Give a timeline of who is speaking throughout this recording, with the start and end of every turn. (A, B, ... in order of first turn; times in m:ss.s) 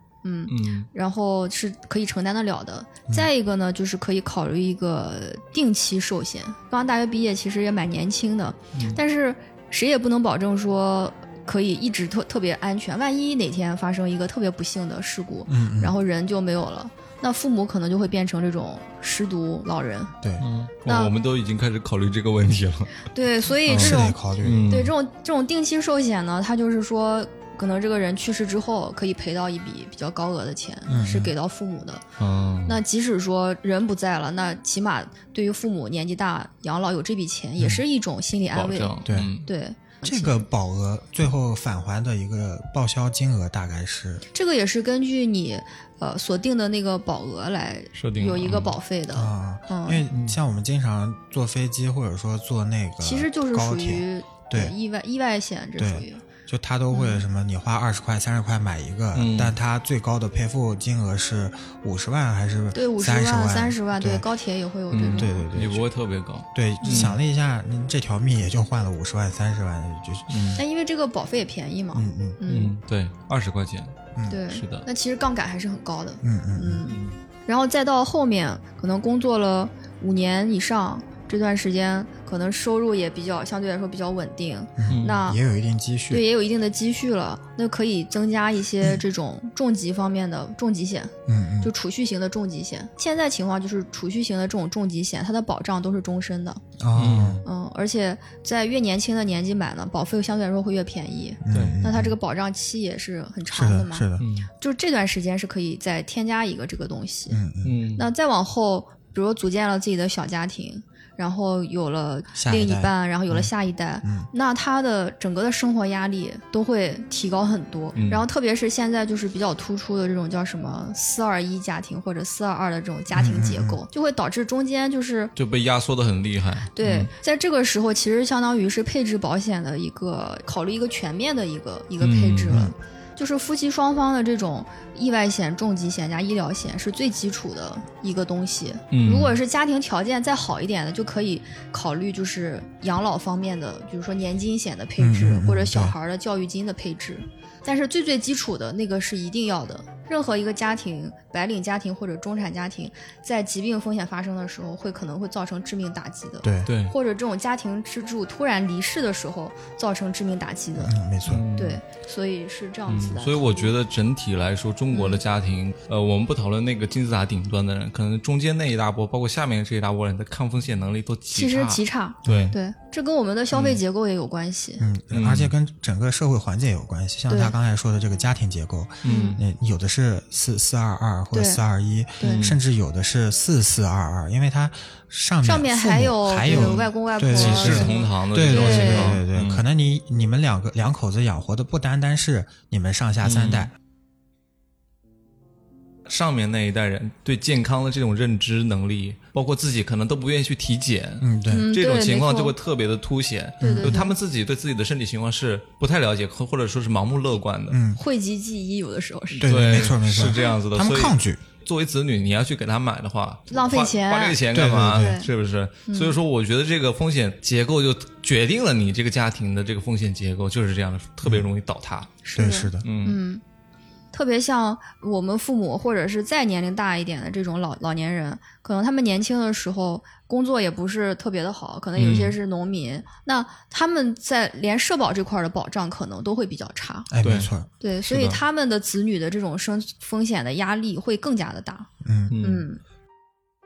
0:00.2-0:20.1 A
0:00.5-0:00.9 B
0:08.7-0:09.0 B
0:15.5-0:15.9 C
0:20.4-0:23.0 B
0:20.8-0:21.1 A
0:23.1-0:32.0 A
0:23.7-0:24.9 B
0:23.7-0:24.7 C
0:30.9-0:31.3 C
0:32.2-0:32.8 B
0:32.6-0:40.4 A
0:38.5-0:39.5 B
0:39.1-0:39.3 C
0:40.0-0:44.2 C
0:44.3-0:50.0 A
0:47.9-0:48.7 B
0:49.1-0:54.7 C
0:50.1-0:50.4 B
0:53.0-0:56.2 A
0:55.8-1:04.2 C
0:56.9-0:57.2 A
0:59.1-0:59.5 B
1:02.7-1:05.4 A
1:04.9-1:07.2 B
1:05.1-1:05.8 C
1:06.5-1:10.3 C
1:06.8-1:07.1 A
1:10.3-1:10.6 B
1:10.6-1:12.7 A
1:11.9-1:12.4 C
1:12.5-1:14.0 B
1:14.1-1:14.4 C
1:14.3-1:25.4 A
1:14.5-1:14.8 B
1:16.2-1:16.8 C
1:16.9-1:17.2 B
1:24.8-1:26.2 C
1:24.9-1:25.2 B
1:26.1-1:36.6 A
1:31.3-1:31.7 C
1:36.8-1:37.4 C
1:36.9-1:37.4 B
1:37.4-1:44.1 A
1:41.4-1:42.2 C
1:41.5-1:41.8 B
1:43.5-1:44.2 C
1:44.2-1:44.5 B
1:44.6-1:47.4 A
1:47.3-1:47.8 C
1:47.6-1:48.1 B
1:48.0-2:05.3 A
1:52.3-1:53.5 C
1:54.0-1:54.3 C
1:57.9-1:58.3 B
2:03.1-2:03.8 C
2:05.4-2:07.1 B
2:06.7-2:41.0 A
2:12.0-2:12.6 B
2:18.9-2:19.4 B
2:25.0-2:25.9 C
2:36.4-2:36.7 C
2:36.6-2:36.9 B
2:40.8-2:41.4 C
2:41.2-2:41.8 B
2:41.6-2:43.7 A
2:42.9-2:52.6 B
2:44.9-2:45.2 A
2:51.3-2:54.8 A
2:52.2-2:52.5 C
2:53.5-2:53.8 B
2:54.8-3:13.7 C
2:55.1-2:55.5 B
2:57.3-2:57.5 A
2:59.0-2:59.4 B
2:59.0-2:59.4 A
3:01.3-3:01.6 A
3:02.2-3:02.5 A
3:02.2-3:02.6 B
3:05.4-3:09.2 A
3:06.5-3:09.6 B
3:13.2-3:13.7 B
3:16.1-3:27.8 B
3:21.2-3:21.7 C
3:21.5-3:22.5 A
3:23.6-3:24.0 C
3:23.6-3:24.1 A
3:27.7-3:28.0 C
3:28.0-3:29.8 A
3:29.4-3:42.2 B
3:29.4-3:31.4 C
3:33.5-3:34.4 A
3:34.5-3:35.2 C
3:34.9-3:35.3 A
3:35.9-3:36.2 A
3:42.2-3:43.4 A
3:42.3-3:42.8 C
3:42.8-3:43.2 B
3:44.1-3:57.1 A
3:52.0-3:52.4 B
3:57.1-3:57.7 C
3:57.2-3:57.5 B
3:57.8-4:01.9 A
3:58.1-3:58.4 B
4:02.0-4:02.4 C
4:02.3-4:02.6 B
4:02.4-4:02.8 A